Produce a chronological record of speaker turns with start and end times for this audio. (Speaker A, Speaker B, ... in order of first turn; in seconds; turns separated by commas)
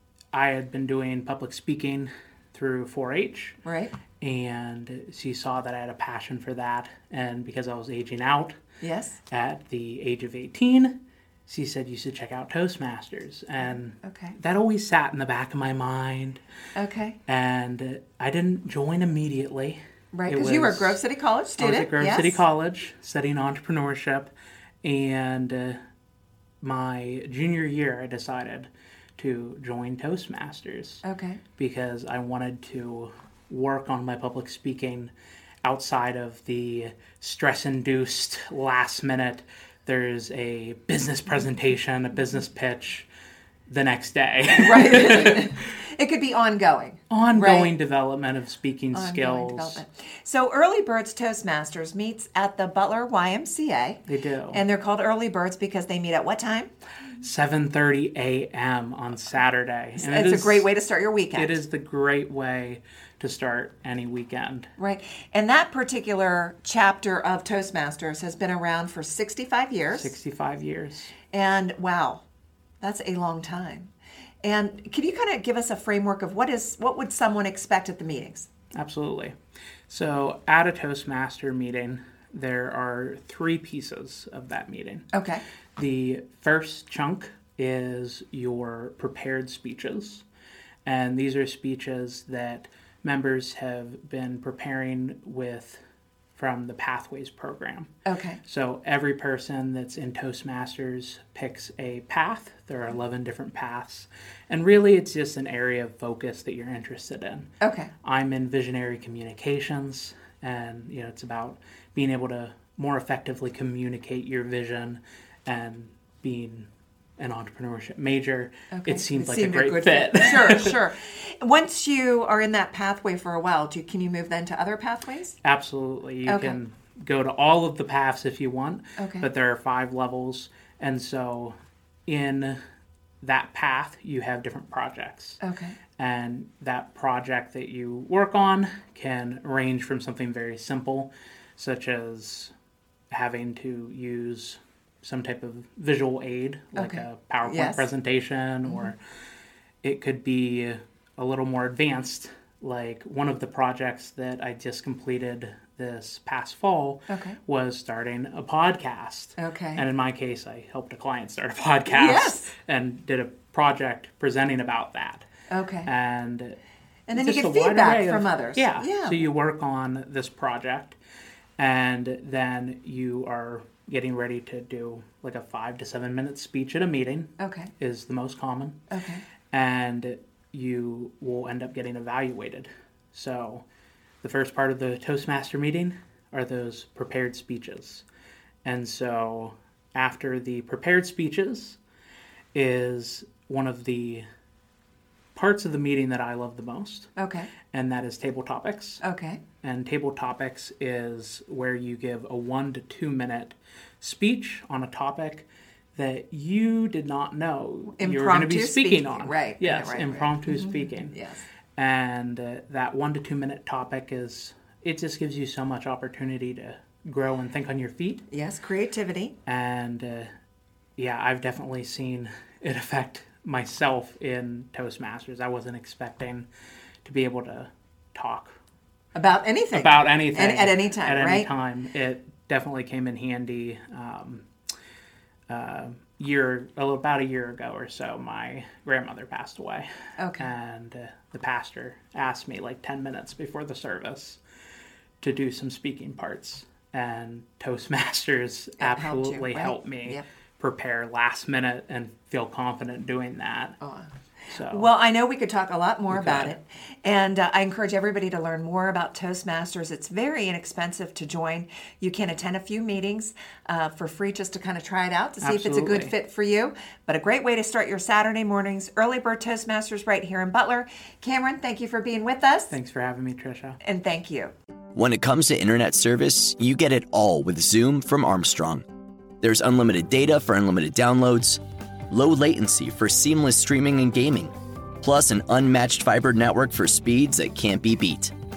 Speaker A: 0.3-3.6, Speaker B: 3.6-4.0, Speaker A: 4.2-8.6, Speaker B: 8.8-9.2, Speaker A: 9.3-16.4, Speaker B: 14.0-14.3, Speaker B: 16.8-17.2, Speaker A: 17.3-21.0, Speaker B: 20.1-22.4, Speaker A: 21.6-24.3, Speaker A: 24.8-25.8, Speaker A: 26.6-31.0, Speaker B: 31.0-31.4, Speaker A: 31.6-35.1, Speaker A: 35.6-43.1, Speaker A: 43.7-45.5, Speaker B: 44.6-47.7, Speaker A: 47.1-49.8, Speaker B: 48.9-56.7, Speaker A: 54.1-54.6, Speaker A: 57.2-60.7, Speaker B: 60.0-61.6, Speaker A: 61.3-64.7, Speaker B: 64.8-70.1, Speaker A: 69.9-71.1, Speaker B: 71.3-72.2, Speaker B: 72.8-73.9, Speaker B: 74.4-78.5, Speaker A: 78.8-79.3, Speaker A: 79.9-85.1, Speaker B: 85.1-85.4, Speaker A: 85.8-90.2, Speaker A: 90.9-95.8, Speaker A: 96.3-97.9, Speaker B: 98.1-98.4, Speaker A: 98.5-107.5, Speaker B: 107.6-107.9, Speaker A: 108.0-120.8, Speaker B: 118.7-125.4, Speaker A: 125.4-131.6, Speaker B: 126.3-126.6, Speaker B: 129.0-129.3, Speaker A: 132.1-132.6, Speaker A: 133.2-135.4, Speaker B: 135.4-135.8, Speaker A: 136.0-142.5, Speaker A: 143.1-149.0, Speaker B: 146.8-147.9, Speaker A: 149.8-165.3, Speaker B: 157.1-157.4, Speaker B: 159.4-159.8, Speaker B: 161.9-162.5, Speaker B: 165.5-165.9, Speaker A: 165.8-166.6, Speaker B: 167.1-169.3, Speaker A: 167.2-171.0, Speaker A: 171.6-178.9, Speaker B: 177.4-177.7, Speaker B: 178.9-179.2, Speaker A: 179.5-183.7, Speaker A: 184.2-188.0, Speaker A: 188.6-191.8, Speaker A: 192.5-194.2, Speaker A: 195.3-197.1, Speaker B: 197.2-197.5, Speaker A: 197.7-199.0, Speaker B: 199.0-199.4, Speaker A: 199.6-211.2, Speaker B: 208.0-211.4, Speaker A: 211.8-218.3, Speaker B: 218.3-219.3, Speaker A: 219.4-220.3, Speaker A: 221.0-226.5, Speaker A: 227.0-228.6, Speaker B: 229.2-231.5, Speaker A: 229.7-234.5, Speaker A: 235.5-244.4, Speaker B: 240.2-240.5, Speaker A: 245.2-253.8, Speaker B: 248.8-250.2, Speaker B: 253.8-254.1, Speaker A: 254.5-254.9, Speaker B: 254.7-272.7, Speaker A: 256.1-256.6, Speaker A: 265.4-266.1, Speaker A: 272.7-273.8, Speaker B: 273.8-274.5, Speaker C: 274.9-278.8, Speaker C: 279.4-288.3